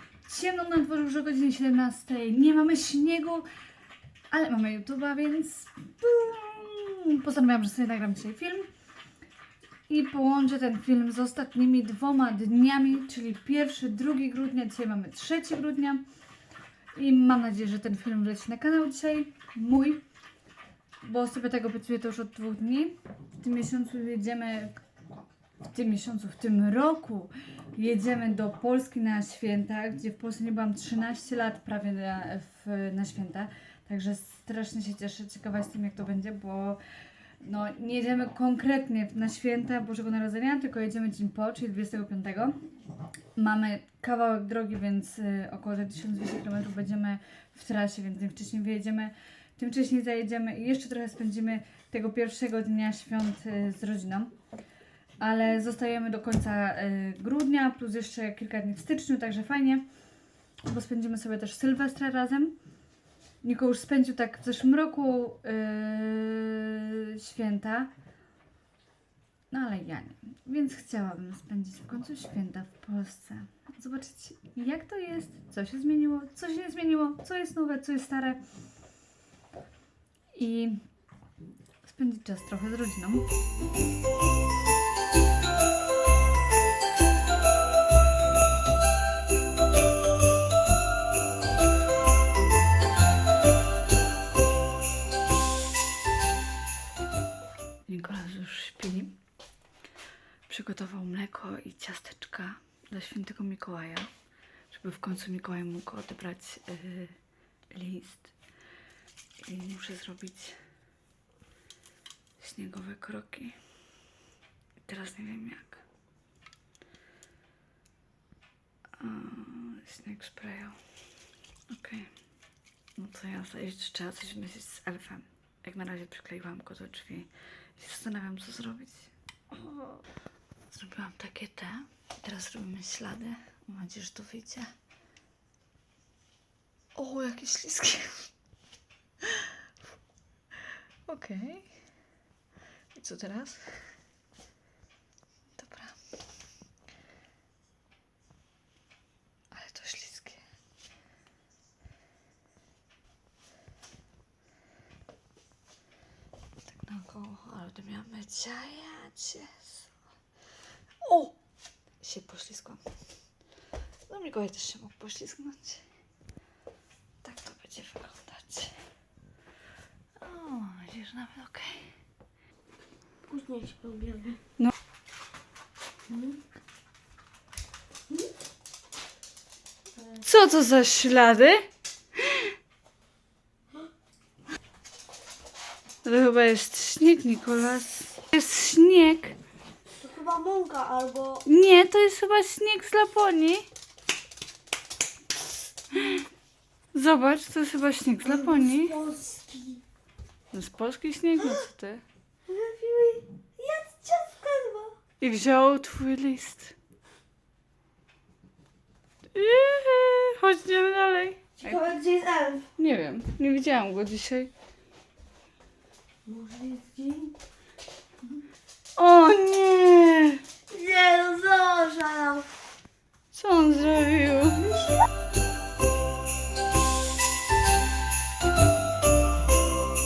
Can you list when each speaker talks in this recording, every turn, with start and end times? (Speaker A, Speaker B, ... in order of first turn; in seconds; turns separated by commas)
Speaker A: 0.2-3.5, Speaker A: 4.3-8.7, Speaker A: 9.9-16.0, Speaker A: 16.9-20.0, Speaker A: 21.0-24.7, Speaker A: 25.7-36.8, Speaker A: 37.4-42.5, Speaker A: 43.4-54.3, Speaker A: 55.2-59.8, Speaker A: 60.6-62.5, Speaker A: 63.4-67.9, Speaker A: 69.5-78.4, Speaker A: 80.3-80.8, Speaker A: 81.8-83.3, Speaker A: 97.9-99.2, Speaker A: 100.5-104.1, Speaker A: 104.7-107.2, Speaker A: 107.7-108.3, Speaker A: 109.4-110.6, Speaker A: 112.4-113.5, Speaker A: 114.9-115.8, Speaker A: 119.0-120.8, Speaker A: 121.7-122.1, Speaker A: 123.0-130.0, Speaker A: 130.7-134.7, Speaker A: 136.9-138.3, Speaker A: 139.2-139.5, Speaker A: 141.1-141.7, Speaker A: 142.9-143.9, Speaker A: 145.6-146.0, Speaker A: 149.5-150.4, Speaker A: 156.6-159.9, Speaker A: 161.0-161.4, Speaker A: 162.0-162.8, Speaker A: 164.1-165.8, Speaker A: 167.2-168.7, Speaker A: 170.2-171.9, Speaker B: 173.2-174.4, Speaker B: 176.1-176.4, Speaker A: 180.2-182.5, Speaker A: 186.0-189.3, Speaker B: 190.0-191.4, Speaker A: 191.4-193.7, Speaker A: 195.9-196.2, Speaker A: 196.9-198.9, Speaker B: 198.2-199.8, Speaker A: 200.5-202.0, Speaker B: 202.5-204.9, Speaker A: 205.2-206.7, Speaker A: 209.3-211.8, Speaker B: 211.6-212.7, Speaker A: 212.8-214.5, Speaker B: 216.2-217.4, Speaker A: 219.0-220.4, Speaker B: 220.7-222.5, Speaker A: 223.3-224.7, Speaker B: 224.6-225.0